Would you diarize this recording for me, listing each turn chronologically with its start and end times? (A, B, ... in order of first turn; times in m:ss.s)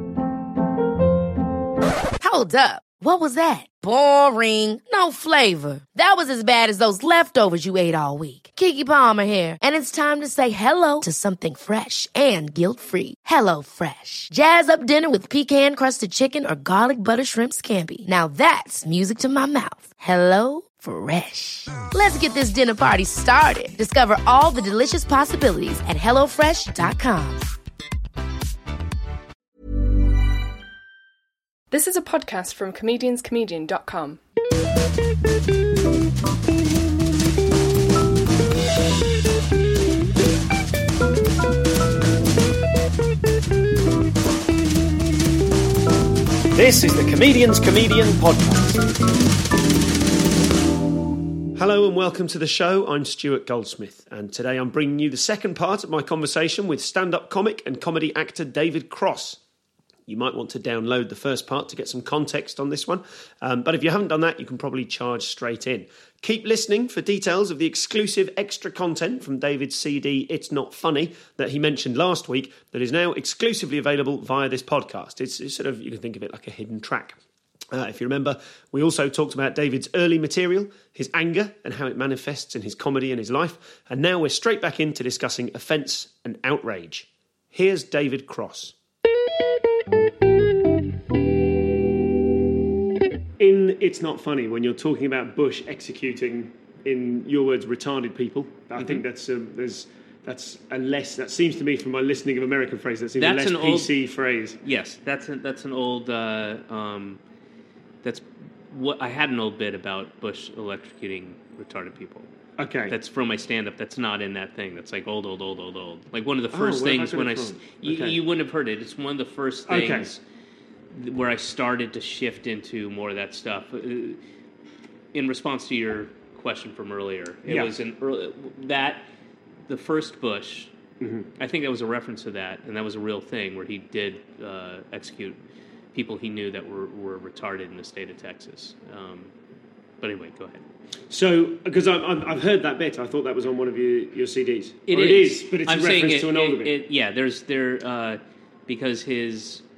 0:02.2-0:27.4 A
0:31.7-0:34.2 B
0:46.5-0:48.8 C
0:51.6-0:59.4 C
1:00.1-1:17.2 C
1:17.7-1:28.7 C
1:33.4-1:44.6 C
1:43.2-1:43.9 D
1:44.6-1:47.2 D
1:48.0-1:52.3 D
1:52.6-1:52.9 C
1:52.9-2:00.2 D
1:56.5-1:58.2 C
1:59.7-2:00.1 C
2:00.9-2:04.2 D
2:05.1-2:09.1 D
2:07.5-2:07.7 C
2:09.7-2:10.7 D
2:11.0-2:11.3 C
2:11.4-2:15.4 D
2:15.9-2:19.3 D
2:20.0-2:20.6 D
2:21.1-2:26.7 C
2:24.9-2:29.6 D